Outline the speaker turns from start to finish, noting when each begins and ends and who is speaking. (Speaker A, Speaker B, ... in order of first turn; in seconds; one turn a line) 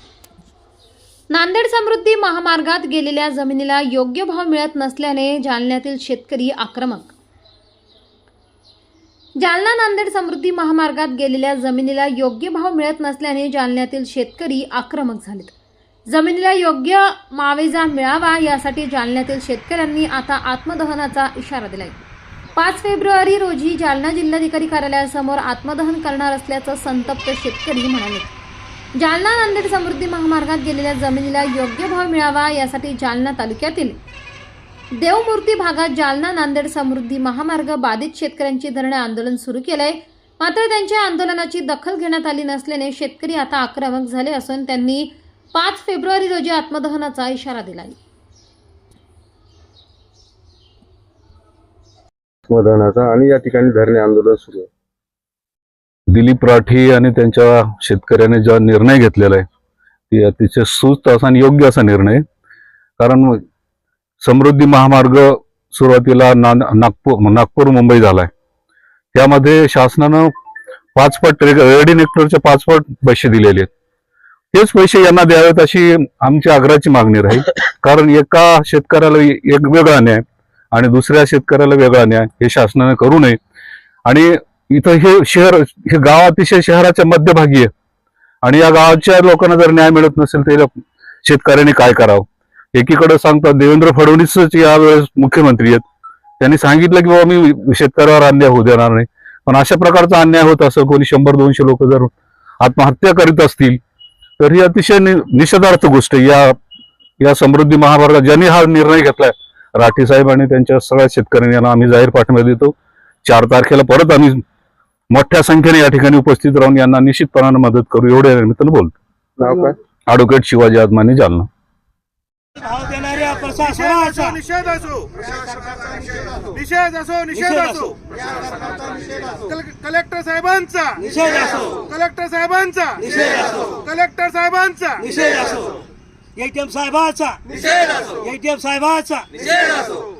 Speaker A: 1.3-7.1
Speaker A: 9.4-15.5
Speaker A: 16.1-22.0
Speaker A: 22.6-28.3
Speaker A: 28.9-34.0
Speaker A: 34.9-48.0
Speaker B: 52.5-54.7
Speaker C: 56.1-59.4
Speaker C: 60.1-62.2
Speaker C: 63.0-63.4
Speaker C: 64.2-68.3
Speaker C: 69.1-70.3
Speaker C: 70.9-73.7
Speaker C: 74.5-83.4
Speaker C: 84.0-87.7
Speaker C: 88.4-90.7
Speaker C: 91.2-95.8
Speaker C: 96.4-103.8
Speaker C: 104.4-106.5
Speaker C: 107.2-114.4
Speaker C: 115.1-118.9
Speaker B: 119.4-119.8
Speaker C: 120.1-121.5
Speaker D: 122.6-124.4
Speaker E: 123.8-125.1
Speaker E: 126.6-127.5
Speaker D: 127.3-127.9
Speaker E: 129.5-131.0
Speaker D: 131.0-131.8
Speaker E: 131.8-133.0
Speaker D: 133.0-133.8
Speaker E: 133.8-135.0
Speaker D: 135.0-135.8
Speaker D: 136.3-139.8